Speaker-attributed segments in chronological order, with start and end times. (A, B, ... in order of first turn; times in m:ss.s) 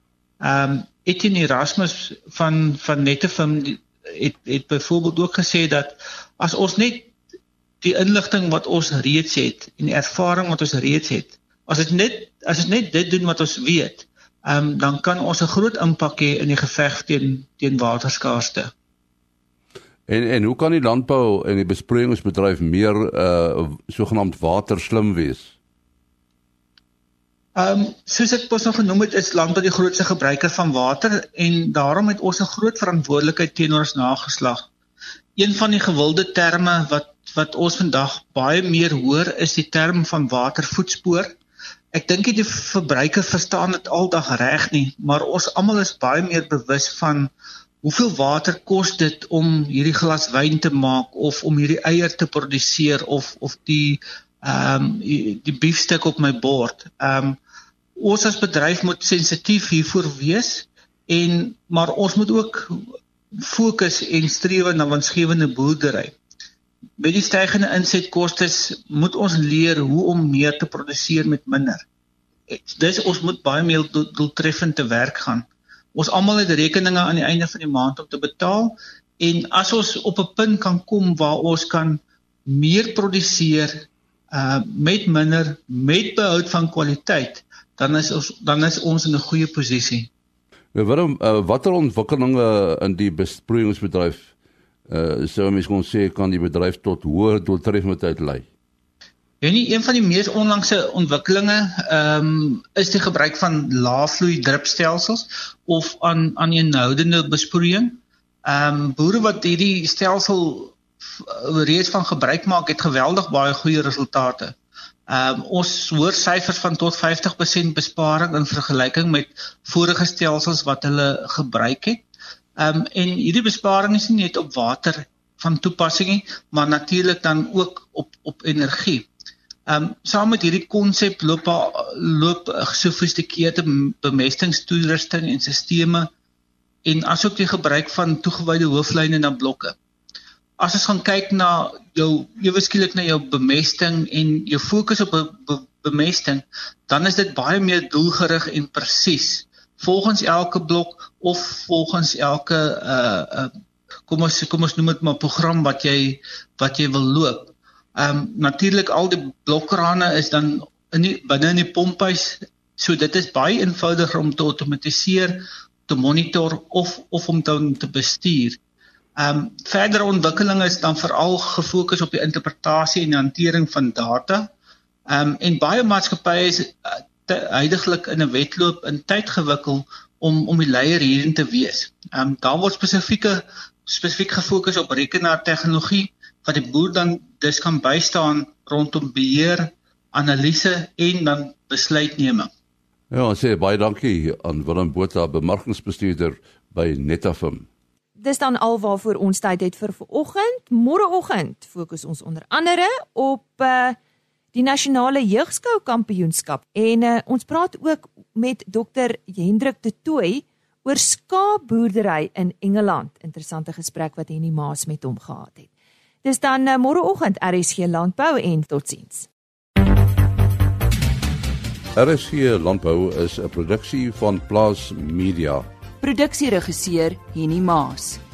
0:00.4-0:07.1 A
0:07.8-0:18.7 A
0:20.1-0:25.5 B
0:27.6-0:34.6 A
0:35.4-0:41.4 A
0:41.9-0:47.3 A
0:47.8-0:57.4 A
0:58.0-1:06.2 A
1:07.0-1:11.8 A
1:12.5-1:30.1 A
1:30.7-1:34.3 B
1:34.9-1:38.4 B
1:39.4-1:54.6 A
1:55.1-2:02.0 A
2:02.6-2:09.1 A
2:09.7-2:16.1 A
2:16.8-2:19.8 A
2:20.6-2:33.5 A
2:34.1-2:48.6 A
2:49.2-2:54.5 A
2:55.1-3:12.5 A
3:13.1-3:17.6 B
3:18.2-3:24.0 C
3:24.5-3:35.7 C
3:36.2-3:39.3 C
3:42.0-3:45.7 B
3:46.0-3:48.2 C